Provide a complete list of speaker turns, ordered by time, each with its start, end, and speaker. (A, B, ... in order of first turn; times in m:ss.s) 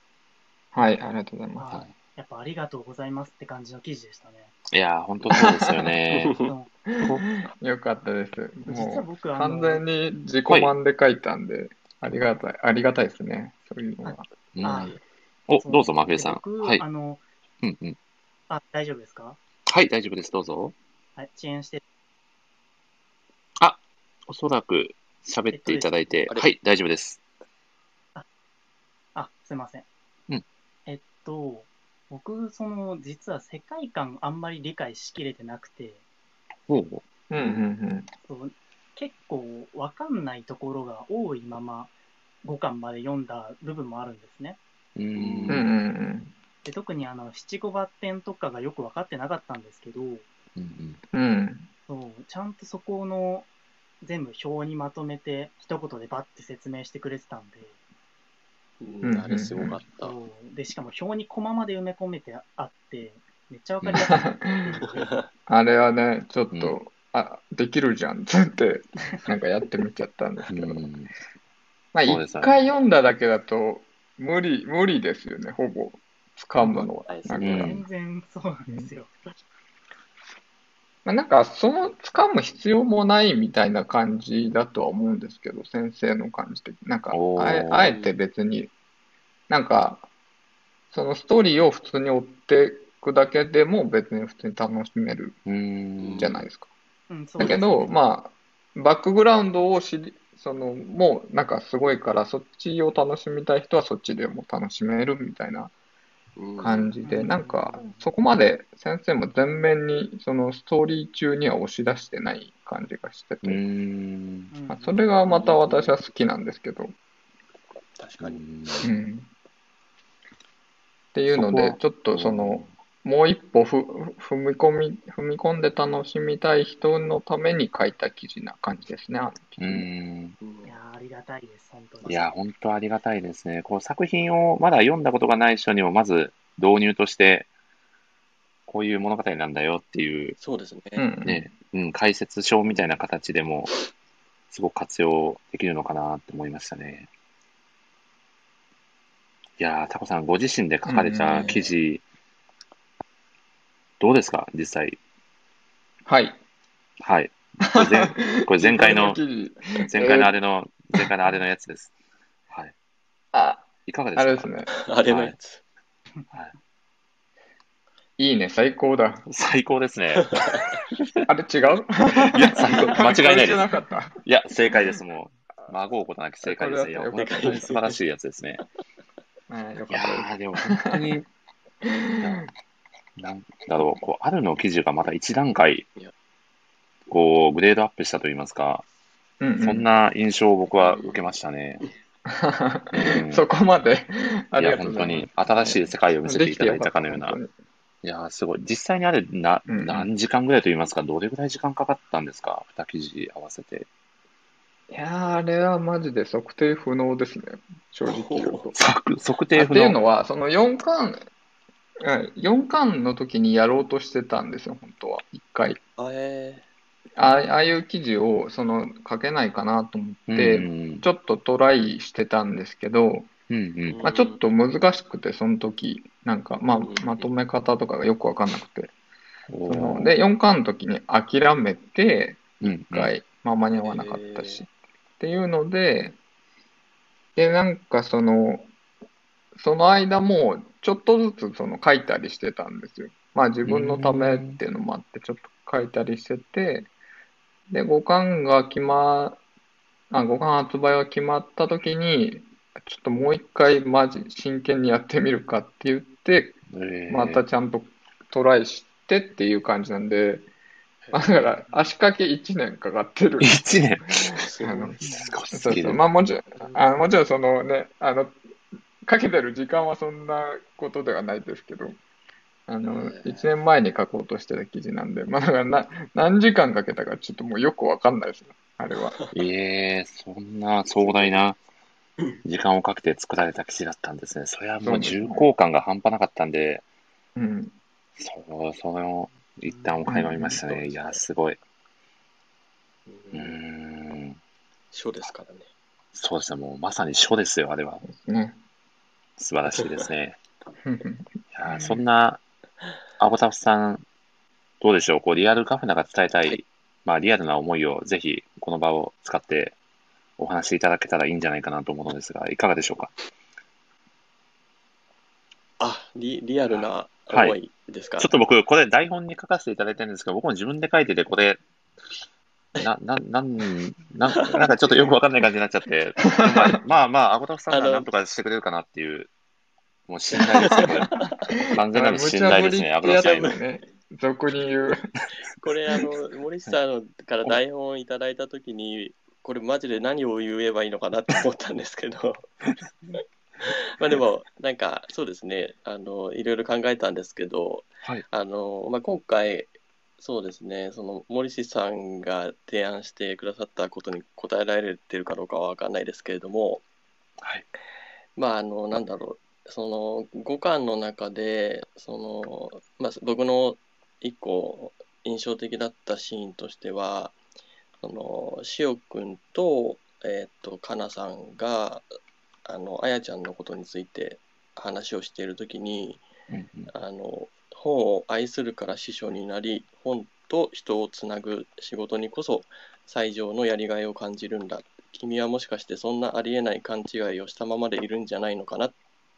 0:00.7-0:01.7 A
0:01.6-0:04.5 B
0:04.7-0:06.4 C
0:05.3-0:06.0 A
0:06.1-0:06.5 D
0:06.5-0:06.7 B
0:06.9-0:14.3 A
0:08.7-0:09.9 B
0:10.5-0:10.7 C
0:14.0-0:15.0 B
0:14.6-0:15.0 C
0:15.5-0:16.8 C
0:15.6-0:17.2 B
0:17.6-0:18.0 C
0:18.5-0:19.4 B
0:19.7-0:20.8 C
0:21.2-0:21.8 B
0:23.6-0:27.2 C
0:25.5-0:25.9 B
0:29.2-0:29.9 B
0:30.9-0:36.0 B
0:36.7-0:37.0 C
0:37.3-0:38.1 A
0:38.3-0:41.9 B
0:42.4-0:44.6 B
0:45.0-0:45.7 C
0:45.2-0:45.7 D
0:45.5-0:46.3 A
0:46.6-0:50.2 B
0:50.6-0:51.0 C
0:51.1-0:51.7 A
0:51.9-0:53.5 B
0:54.0-0:57.8 B
0:58.8-1:00.1 D
0:59.0-0:59.8 A
1:00.0-1:05.2 B
1:03.8-1:04.2 C
1:04.0-1:04.8 A
1:05.0-1:05.2 D
1:05.5-1:10.8 A
1:10.5-1:11.1 C
1:11.9-1:17.7 A
1:12.0-1:12.5 C
1:16.6-1:17.7 D
1:17.4-1:17.8 C
1:17.6-1:19.2 B
1:21.0-1:28.7 A
1:27.1-1:28.0 C
1:27.8-1:28.2 D
1:29.5-1:30.1 A
1:30.9-1:35.4 A
1:35.5-1:36.3 C
1:36.0-1:36.4 D
1:36.2-1:36.7 A
1:37.1-1:37.9 B
1:37.4-1:45.7 A
1:46.4-1:47.0 D
1:46.6-1:53.6 A
1:47.0-1:48.1 B
1:53.4-1:54.5 C
1:54.5-1:55.0 B
1:54.7-1:56.9 A
1:55.3-1:56.0 D
1:58.0-1:58.9 D
1:58.2-1:58.9 C
1:58.8-1:59.3 A
2:01.1-2:09.9 A
2:01.3-2:02.7 C
2:09.6-2:10.4 C
2:10.4-2:10.7 D
2:10.6-2:12.3 B
2:12.1-2:17.5 C
2:18.7-2:20.4 C
2:20.4-2:21.0 D
2:21.0-2:21.4 A
2:21.2-2:23.7 C
2:24.5-2:27.1 C
2:29.6-2:32.0 C
2:30.8-2:31.6 A
2:31.4-2:31.6 D
2:34.0-2:35.0 C
2:36.1-2:36.4 A
2:37.0-2:39.2 C
2:37.7-2:40.3 A
2:39.9-2:41.9 C
2:43.3-2:44.7 A
2:43.9-2:44.5 C
2:44.7-2:45.6 D
2:45.1-2:45.4 C
2:48.2-2:49.2 A
2:49.3-2:50.9 C
2:51.3-2:54.2 A
2:52.3-2:53.6 C
2:52.6-2:53.0 D
2:54.2-2:58.6 C
2:56.4-2:57.7 A
2:57.2-2:58.0 D
2:59.5-3:01.0 A
2:59.9-3:01.3 C
3:01.8-3:02.4 A
3:02.2-3:02.5 C
3:03.2-3:05.9 C
3:07.1-3:08.8 C
3:09.4-3:09.9 A
3:09.6-3:11.8 C
3:10.8-3:11.2 D
3:12.3-3:17.5 A
3:12.9-3:13.4 C
3:14.6-3:17.4 C
3:18.0-3:23.9 C
3:19.7-3:20.1 A
3:24.9-3:28.8 A
3:28.1-3:28.7 D
3:28.8-3:30.0 C
3:29.5-3:31.2 A
3:32.0-3:35.8 A
3:36.0-3:36.6 D
3:37.2-3:43.3 A
3:40.3-3:41.1 C
3:43.5-3:44.0 C
3:43.9-3:44.4 D
3:44.0-3:48.9 A
3:46.6-3:47.3 D
3:49.5-3:50.2 C
3:49.7-3:54.7 A
3:52.6-3:53.1 C
3:53.8-3:54.6 D
3:55.2-3:56.2 A
3:57.4-3:58.7 A
3:59.6-4:06.9 A
4:03.7-4:04.6 C
4:07.7-4:09.4 A
4:10.1-4:20.5 A
4:16.7-4:17.4 C
4:21.0-4:21.8 D
4:21.1-4:23.6 A
4:23.4-4:24.4 C
4:24.1-4:28.4 A
4:24.3-4:25.1 D
4:25.0-4:25.4 B
4:25.2-4:26.0 C
4:26.6-4:26.9 D
4:29.0-4:32.0 A
4:32.7-4:39.2 A
4:32.8-4:33.5 D
4:39.3-4:41.6 C
4:41.0-4:41.4 D
4:42.4-4:46.8 C
4:44.8-4:45.5 A
4:47.4-4:47.7 A
4:48.2-4:51.6 C
4:49.7-4:50.0 B
4:50.1-4:50.6 A
4:50.5-4:51.2 D
4:53.1-4:53.6 D
4:53.3-4:54.4 C
4:54.9-4:55.7 D
4:56.2-4:58.0 C
4:58.0-4:58.6 A
4:59.4-5:00.4 C
5:00.8-5:02.0 A
5:01.5-5:02.4 C
5:03.2-5:04.0 C
5:04.8-5:09.8 C
5:10.4-5:13.1 C
5:15.8-5:18.3 D
5:16.7-5:17.6 C
5:18.2-5:21.6 C
5:22.8-5:29.3 C
5:24.3-5:25.2 D
5:26.4-5:26.7 A
5:27.7-5:28.1 D
5:30.1-5:33.6 C
5:30.4-5:31.3 D
5:31.8-5:35.1 A
5:33.2-5:33.6 D
5:35.6-5:42.5 D
5:43.2-5:56.8 D
5:58.4-6:07.4 D
6:08.0-6:12.1 D
6:12.6-6:16.2 D
6:16.5-6:16.9 C
6:16.9-6:29.0 D